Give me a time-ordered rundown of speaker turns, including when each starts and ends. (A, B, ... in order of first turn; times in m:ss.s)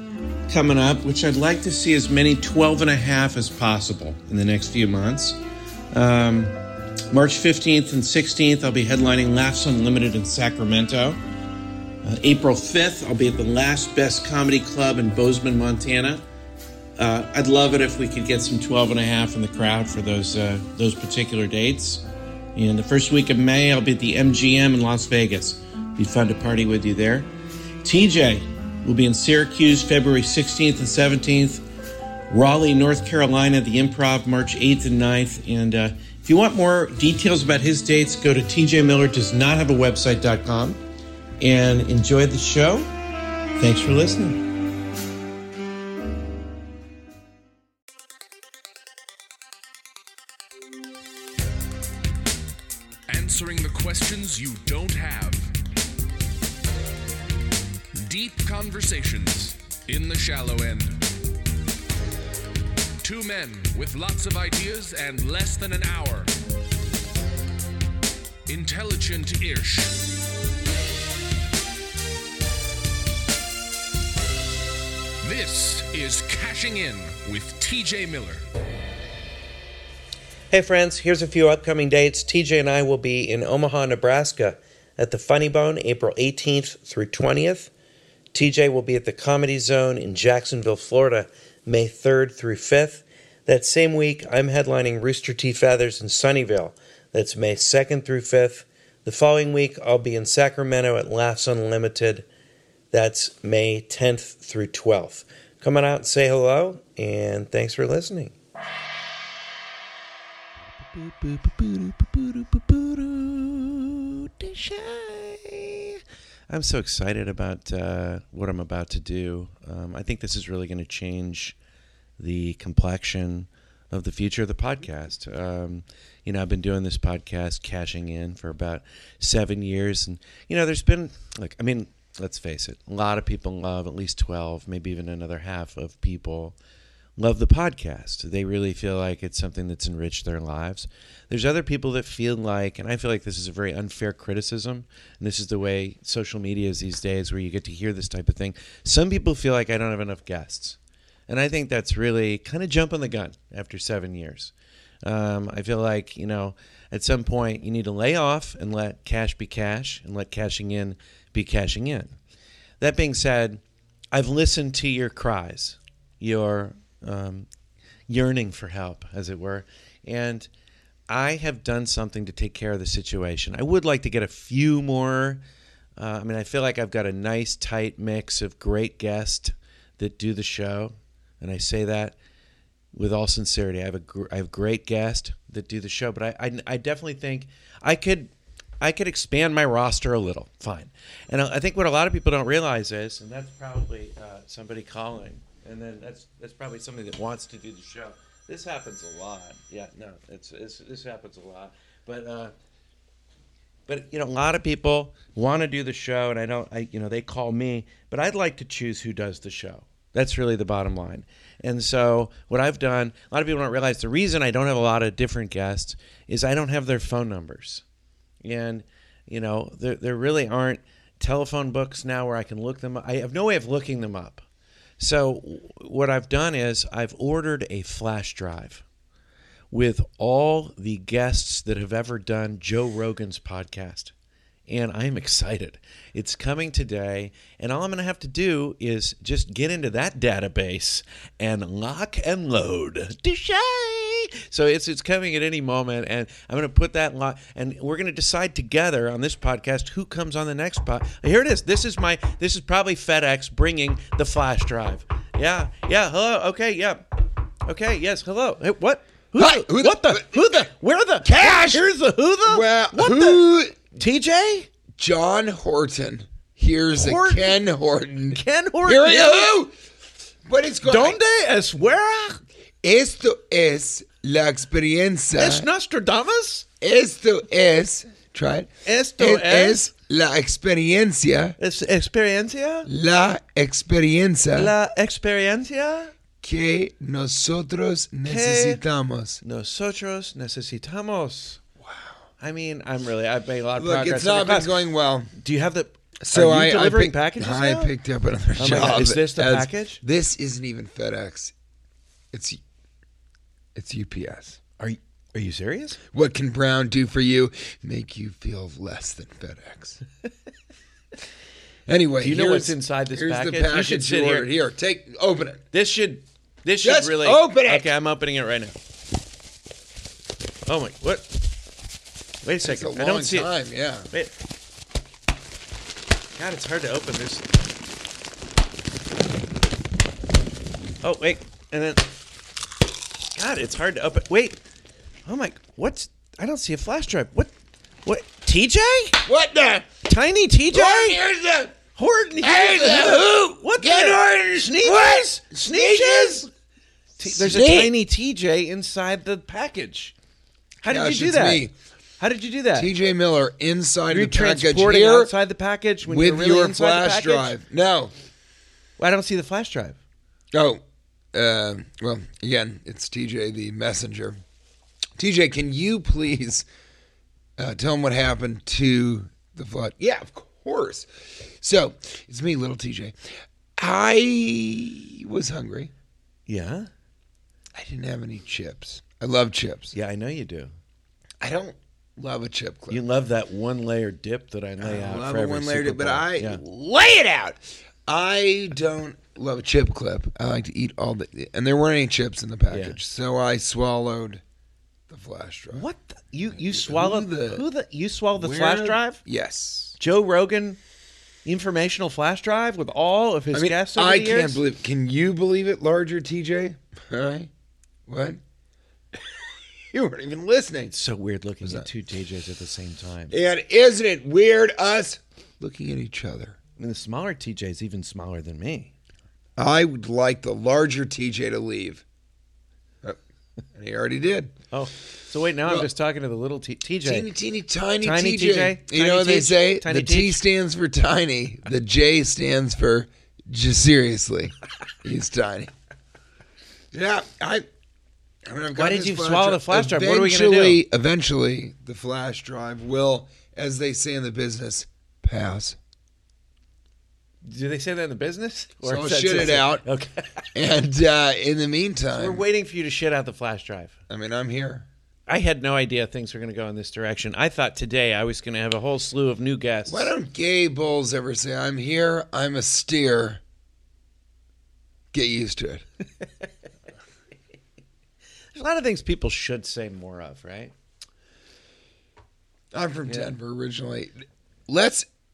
0:00.5-0:05.4 A
0:05.9-0:06.6 A
0:07.1-0:11.2 A
0:12.0-0:16.2 A
0:17.0-0:22.0 A
0:22.6-0:27.3 A
0:27.8-0:31.6 A
0:32.3-0:40.8 A
0:41.4-0:42.9 A
0:43.6-0:44.6 A
0:53.1-0:55.5 B
0:57.9-1:01.0 B
1:03.0-1:06.3 B
1:08.5-1:10.0 B
1:15.2-1:18.4 B
1:20.5-1:27.7 A
1:28.3-1:42.3 A
1:42.9-1:48.4 A
1:50.9-2:01.6 A
2:02.2-2:16.6 A
2:17.2-2:30.8 A
2:31.3-2:42.2 A
2:42.8-2:43.6 A
2:44.1-2:47.5 A
2:48.1-2:50.5 A
2:51.1-2:55.4 A
2:56.0-3:02.2 A
3:02.9-3:22.5 A
3:23.9-3:37.8 A
3:38.4-3:44.4 A
3:45.0-3:48.8 A
3:49.7-3:54.1 A
3:54.7-4:24.7 A
4:19.4-4:20.7 C
4:21.2-4:21.9 C
4:22.5-4:23.8 C
4:25.0-4:29.7 C
4:27.0-4:27.6 A
4:28.3-4:29.5 A
4:30.4-4:31.2 C
4:30.8-4:32.4 A
4:32.8-4:35.7 C
4:35.4-4:36.6 A
4:36.8-4:41.6 C
4:38.8-4:39.8 A
4:41.6-4:42.9 A
4:42.9-4:44.7 C
4:44.6-4:46.1 A
4:46.4-4:49.4 C
4:48.2-4:48.8 A
4:49.4-4:51.6 A
4:51.8-4:52.1 C
4:52.4-4:58.0 A
4:53.8-4:55.3 C
4:56.2-5:01.5 C
4:58.6-5:00.0 A
5:02.3-5:02.6 C
5:03.8-5:04.6 C
5:04.8-5:06.0 A
5:06.1-5:10.0 C
5:11.9-5:15.6 C
5:12.2-5:14.5 A
5:15.7-5:18.8 A
5:16.8-5:17.9 C
5:20.7-5:21.4 A
5:22.4-5:23.5 A
5:22.6-5:24.1 C
5:26.4-5:27.5 A
5:31.0-5:32.1 A
5:33.4-5:34.6 A
5:35.3-5:39.2 A
5:39.2-5:39.9 C
5:40.0-5:41.2 A
5:40.7-5:41.8 C
5:42.0-5:46.5 A
5:42.4-5:46.5 C
5:47.2-5:50.1 A
5:47.2-5:47.9 C
5:50.8-5:51.7 A
5:50.9-5:51.7 C
5:52.2-5:52.9 A
5:52.8-5:55.3 C
5:54.1-5:57.6 A
5:56.0-5:58.1 C
5:59.0-6:00.0 A
6:00.5-6:04.4 C
6:05.2-6:06.7 C
6:07.6-6:15.9 C
6:16.5-6:16.9 A
6:17.7-6:19.9 C
6:19.9-6:20.7 A
6:21.4-6:23.0 C
6:22.9-6:26.6 A
6:24.8-6:34.4 C
6:32.7-6:33.0 A
6:35.1-6:35.9 C
6:35.7-6:39.2 A
6:36.6-6:37.6 C
6:38.4-6:40.0 C
6:40.0-6:40.8 A
6:41.4-6:44.6 A
6:43.5-6:47.5 C
6:48.1-6:48.4 C
6:49.2-6:50.9 C
6:50.9-6:53.4 A
6:51.6-6:51.9 C
6:53.3-6:56.6 C
6:56.8-6:58.9 A
6:59.6-7:02.0 C
7:03.7-7:04.6 C
7:04.7-7:07.3 A
7:07.0-7:15.7 C
7:08.0-7:10.4 A
7:16.9-7:17.7 C
7:18.5-7:25.8 C
7:18.8-7:20.8 A
7:27.4-7:30.5 A
7:28.8-7:29.8 C
7:30.5-7:32.4 C
7:32.1-7:34.0 A
7:34.1-7:34.9 C
7:35.3-7:40.1 A
7:39.9-7:43.4 C
7:45.1-7:45.8 C
7:48.5-7:50.7 A
7:52.7-7:55.1 C
7:53.1-7:53.3 A